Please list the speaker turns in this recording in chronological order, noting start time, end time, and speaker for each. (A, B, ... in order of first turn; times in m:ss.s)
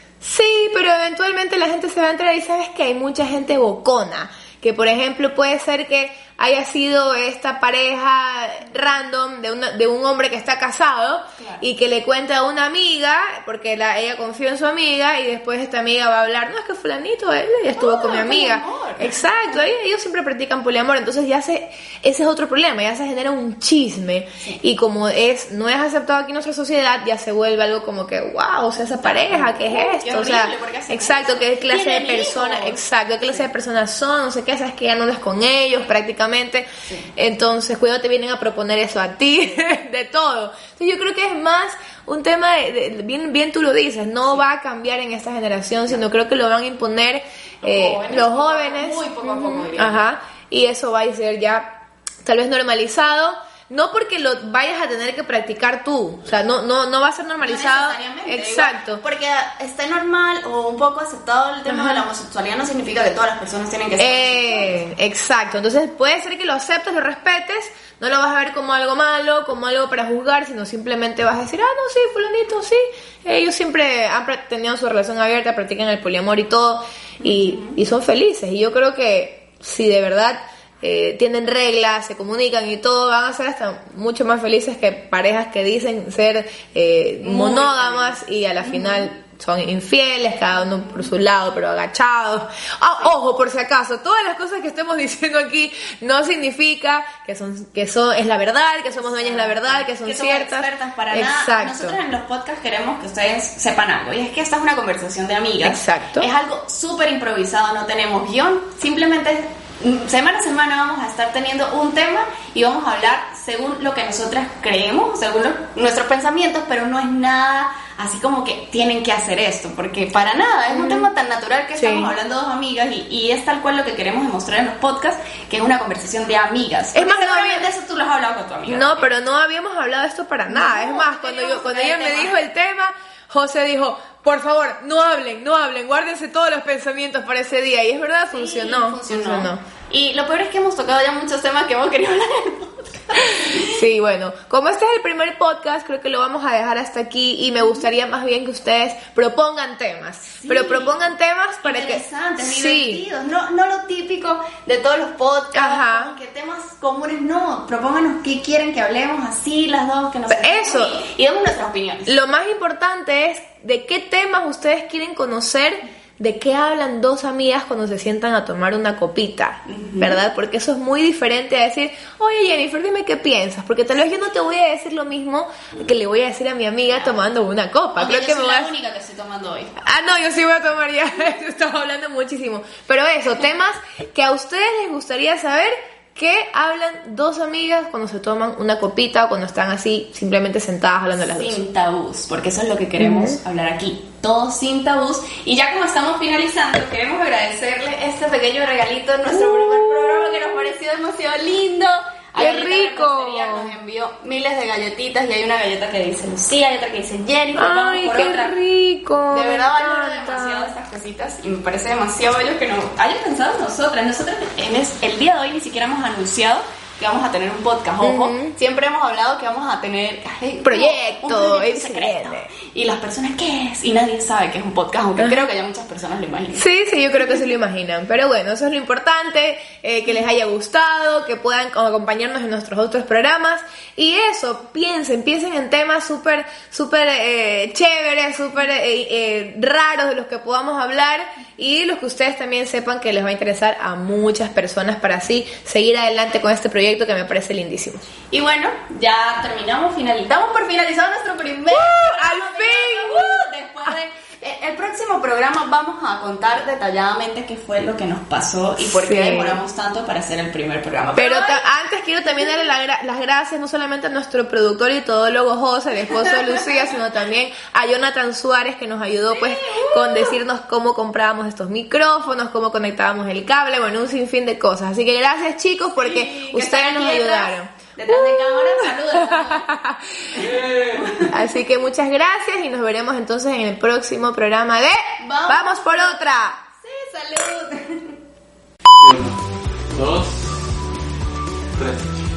0:00.2-0:59.0 A
0:11.4-0:11.6 B
0:17.7-0:19.6 B
0:29.0-0:32.8 B
0:47.6-0:50.0 B
0:57.4-1:04.7 B
1:01.7-1:02.0 A
1:04.0-1:42.0 A
1:17.2-1:17.8 B
1:27.2-1:29.1 B
1:39.0-2:09.1 B
1:45.6-1:46.3 A
2:00.7-2:01.1 A
2:01.8-2:02.1 A
2:06.9-2:07.6 A
2:08.7-2:19.6 A
2:10.5-2:12.4 B
2:18.3-2:23.8 B
2:23.3-2:33.0 A
2:30.4-2:30.9 B
2:31.6-2:42.1 B
2:35.5-2:36.1 A
2:40.3-2:41.0 A
2:42.1-2:58.7 A
2:49.6-2:50.2 B
2:58.0-2:59.8 B
2:59.8-3:11.6 A
3:11.2-3:28.5 B
3:13.0-3:13.4 A
3:19.3-3:20.4 A
3:22.4-3:23.7 A
3:27.5-3:30.7 A
3:29.3-3:46.6 B
3:38.0-3:38.5 A
3:40.6-3:42.5 A
3:45.2-3:45.4 A
3:46.5-4:08.0 A
4:08.3-4:21.6 B
4:11.7-4:13.9 A
4:18.8-4:19.6 A
4:21.2-4:40.4 A
4:29.3-4:30.4 B
4:36.0-4:39.7 B
4:40.3-4:41.3 B
4:40.4-4:41.2 C
4:41.3-4:46.6 A
4:45.2-4:48.2 B
4:49.0-4:50.4 C
4:51.8-4:52.1 C